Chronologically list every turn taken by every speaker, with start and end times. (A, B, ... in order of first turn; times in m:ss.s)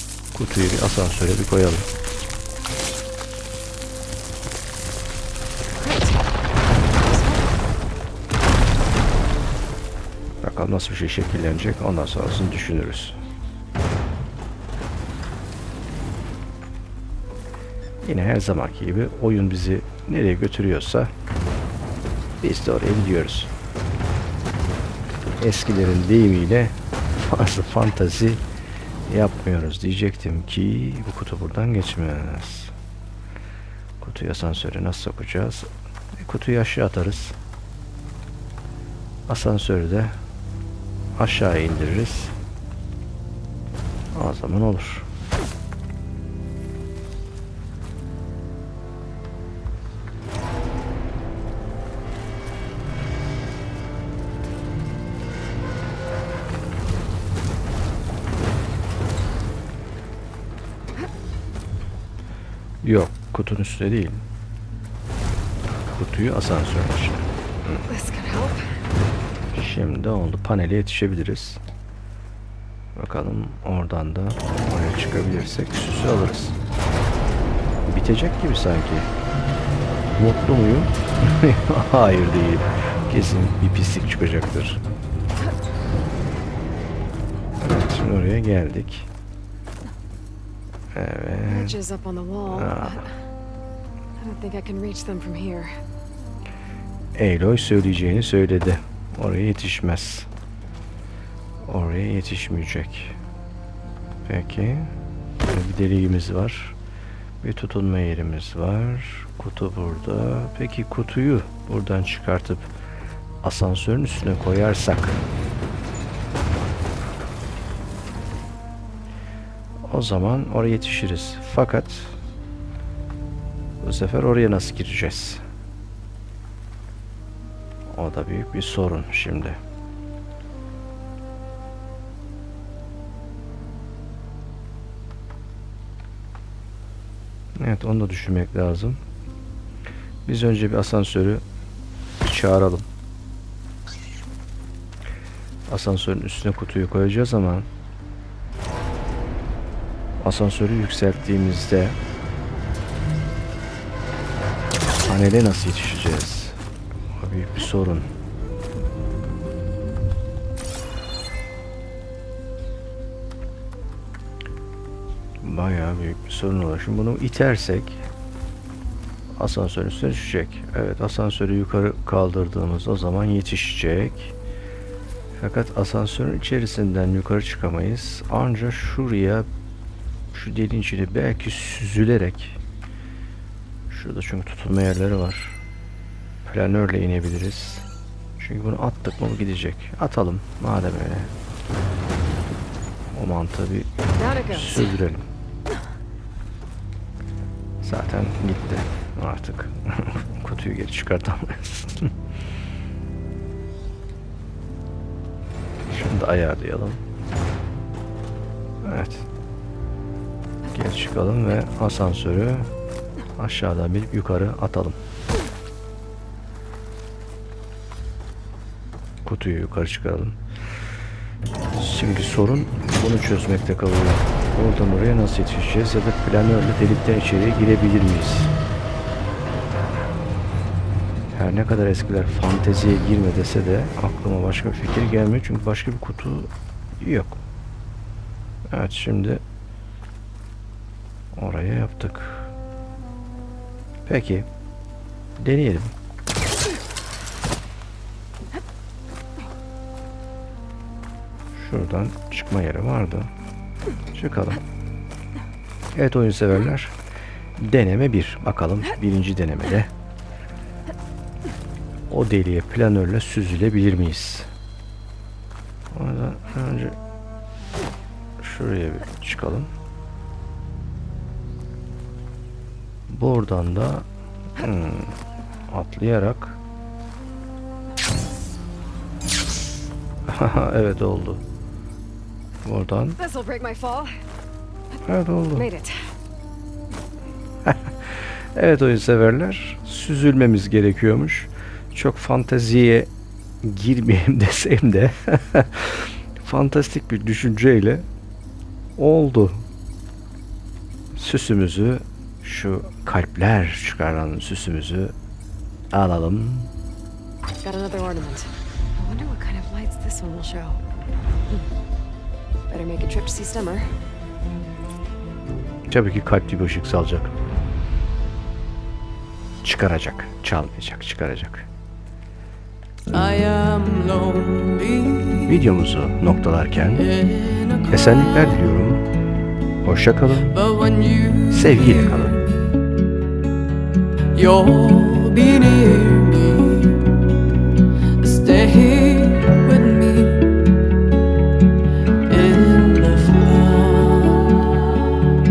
0:00.3-0:01.9 A
0:05.8-0:06.2 B
0:07.0-0:07.5 B
0:10.4-0:13.2 A
0:18.0-0:21.1 A
0:22.4-0:23.5 A
0:25.4-0:28.4 A
0:29.1-0:32.7 A
0:34.0-0:37.4 A
0:39.3-0:40.2 A
0:41.2-0:42.4 A
0:44.1-0:45.1 A
1:02.8-1:04.2 A
1:05.9-1:07.8 A
1:07.9-1:08.8 B
1:09.5-1:11.6 A
1:13.0-1:16.6 A
1:17.8-1:19.1 A
1:20.2-1:24.8 A
1:27.6-1:29.1 A
1:30.9-1:31.8 A
1:31.5-1:33.1 B
1:32.5-1:33.0 A
1:34.2-1:35.7 B
1:37.1-1:40.3 A
1:41.6-1:43.2 A
1:44.2-1:44.9 A
1:45.5-1:46.8 A
1:47.4-1:52.7 A
1:53.4-1:55.2 A
1:59.8-2:02.2 A
2:03.8-2:05.4 A
2:07.9-2:09.6 A
2:17.6-2:19.0 A
2:20.2-2:21.4 A
2:22.2-2:22.8 A
2:25.7-2:27.7 A
2:30.2-2:32.0 A
2:35.0-2:36.6 A
2:37.2-2:38.1 A
2:45.4-2:48.0 A
2:49.3-2:54.4 A
2:55.4-2:59.5 A
3:00.3-3:02.6 A
3:03.9-3:05.6 A
3:06.4-3:07.8 A
3:08.4-3:11.3 A
3:13.1-3:13.9 A
3:14.2-3:14.9 B
3:14.5-3:15.3 A
3:17.8-3:22.1 A
3:25.9-3:27.0 A
3:28.8-3:29.3 A
3:30.7-3:32.7 A
3:33.4-3:35.0 A
3:39.2-3:40.4 A
3:41.8-3:48.5 A
3:51.3-3:57.4 A
3:58.7-3:59.4 A
4:01.3-4:02.5 A
4:04.0-4:04.5 A
4:05.4-4:05.9 A
4:11.5-4:13.3 A
4:14.1-4:14.6 A
4:15.9-4:16.9 A
4:17.6-4:19.9 A
4:22.1-4:24.5 A
4:25.9-4:27.0 A
4:28.4-4:29.7 A
4:33.1-4:34.0 A
4:34.6-4:36.6 A
4:40.3-4:41.4 A
4:42.6-4:43.2 A
4:43.2-4:44.2 B
4:45.0-4:45.7 A
4:45.6-4:46.0 B
4:48.5-4:53.1 A
4:53.6-4:58.0 A
4:59.0-4:59.6 A
5:01.1-5:05.1 A
5:05.9-5:06.7 A
5:07.6-5:10.8 B
5:12.7-5:14.0 B
5:15.9-5:17.3 A
5:19.6-5:21.7 A
5:23.1-5:25.5 C
5:25.4-5:27.1 A
5:27.2-5:27.9 C
5:27.9-5:29.0 A
5:29.8-5:30.6 A
5:30.6-5:31.9 C
5:31.5-5:32.4 A
5:34.3-5:37.2 C
5:38.2-5:40.6 C
5:42.2-5:44.9 C